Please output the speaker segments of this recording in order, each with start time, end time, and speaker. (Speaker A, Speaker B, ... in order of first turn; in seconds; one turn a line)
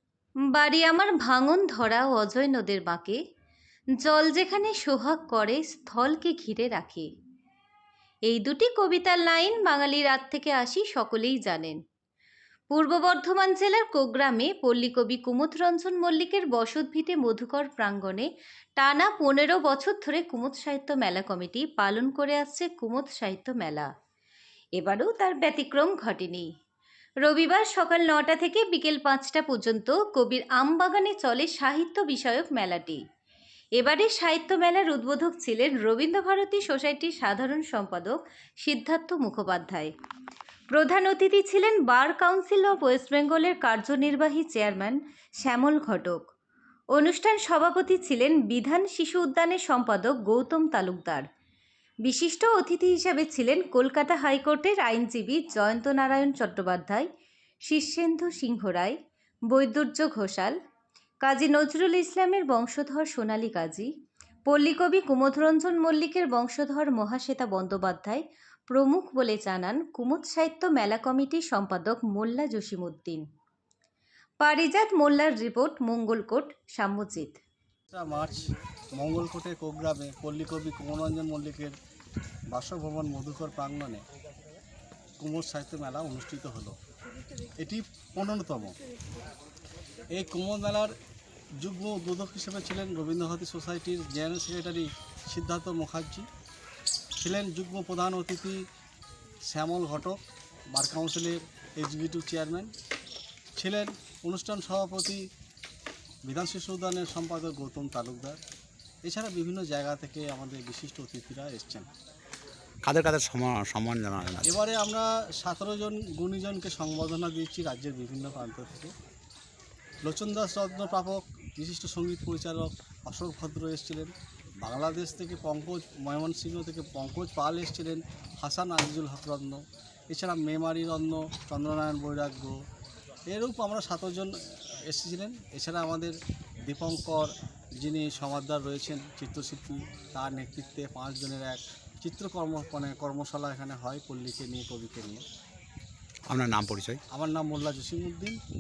Speaker A: 0.5-3.2
Speaker A: 4.0-7.1
Speaker A: 8.3-11.8
Speaker A: 12.7-23.9
Speaker A: 24.8-26.5
Speaker A: 27.2-33.0
Speaker A: 33.8-39.9
Speaker A: 40.7-46.2
Speaker A: 46.9-51.3
Speaker A: 52.0-57.1
Speaker A: 57.7-59.0
Speaker A: 59.5-60.5
Speaker A: 61.2-63.9
Speaker A: 64.5-73.2
Speaker A: 74.4-77.4
Speaker B: 77.9-81.8
Speaker B: 82.5-84.0
Speaker B: 85.2-86.8
Speaker B: 87.6-88.8
Speaker B: 90.1-90.9
Speaker B: 91.6-96.3
Speaker B: 97.2-98.6
Speaker B: 99.5-100.2
Speaker B: 100.7-102.7
Speaker B: 103.6-105.2
Speaker B: 106.3-108.4
Speaker B: 109.0-111.9
Speaker C: 112.8-114.5
Speaker B: 114.4-118.9
Speaker B: 120.0-132.6
Speaker B: 133.3-136.2
Speaker B: 136.7-145.2
Speaker C: 146.3-147.0
Speaker B: 147.1-148.4